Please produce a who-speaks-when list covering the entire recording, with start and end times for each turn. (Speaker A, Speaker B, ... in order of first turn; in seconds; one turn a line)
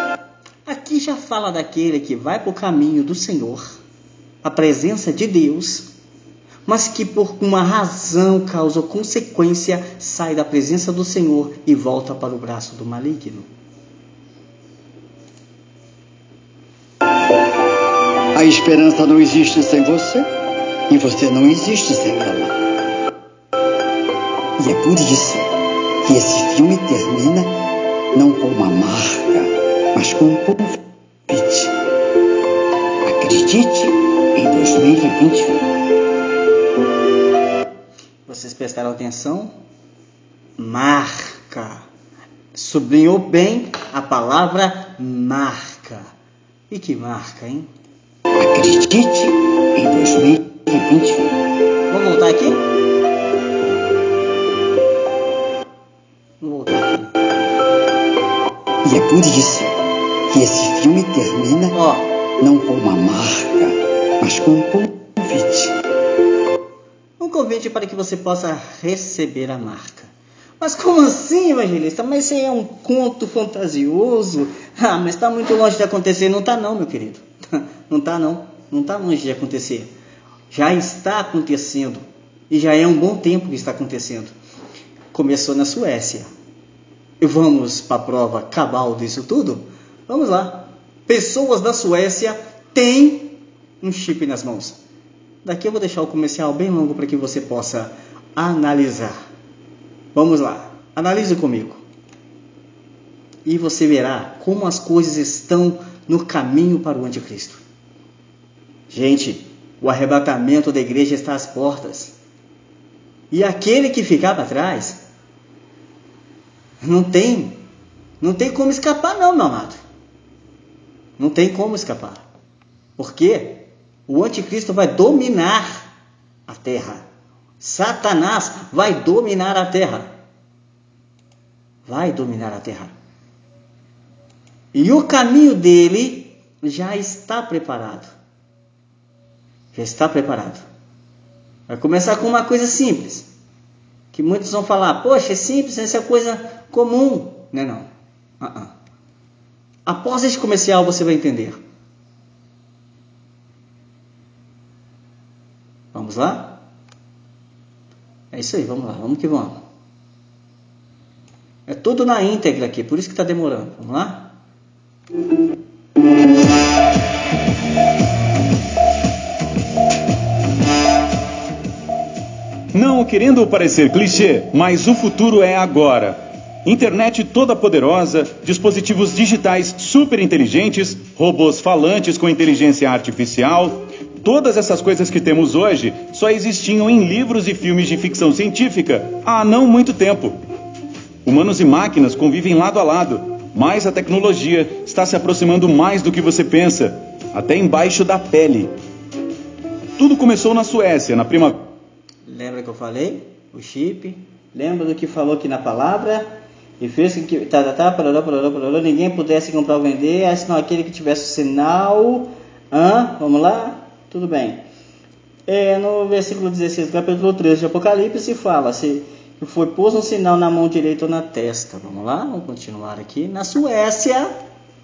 Speaker A: 0.7-3.8
Speaker A: 4.4-5.9
Speaker A: 6.7-13.5
Speaker B: 18.3-20.2
Speaker B: 20.9-22.6
Speaker B: 24.6-25.4
Speaker B: 26.0-27.6
Speaker B: 28.1-31.7
Speaker B: 33.0-35.6
Speaker A: 38.2-39.5
Speaker A: 40.6-41.9
Speaker A: 42.5-46.1
Speaker A: 46.7-47.7
Speaker B: 48.4-51.3
Speaker A: 51.9-52.6
Speaker A: 56.4-57.1
Speaker B: 58.8-59.7
Speaker B: 60.3-61.8
Speaker A: 61.7-62.1
Speaker B: 62.4-65.7
Speaker A: 67.2-79.9
Speaker A: 80.5-84.3
Speaker A: 85.1-86.3
Speaker A: 87.2-94.8
Speaker A: 95.4-99.1
Speaker A: 100.1-101.8
Speaker A: 103.5-107.6
Speaker A: 108.9-112.1
Speaker A: 113.3-115.0
Speaker A: 116.8-117.6
Speaker A: 118.2-119.8
Speaker A: 121.2-122.2
Speaker A: 123.0-125.9
Speaker A: 126.5-127.0
Speaker A: 127.6-130.1
Speaker A: 131.8-132.9
Speaker A: 134.7-138.1
Speaker A: 139.7-140.6
Speaker A: 141.7-143.3
Speaker A: 144.1-147.9
Speaker A: 148.4-148.7
Speaker A: 149.8-151.6
Speaker A: 155.9-156.6
Speaker A: 158.3-159.6
Speaker A: 161.7-164.3
Speaker C: 172.7-190.4
Speaker C: 191.2-198.7
Speaker C: 200.0-201.6
Speaker A: 202.2-214.6
Speaker A: 215.5-224.3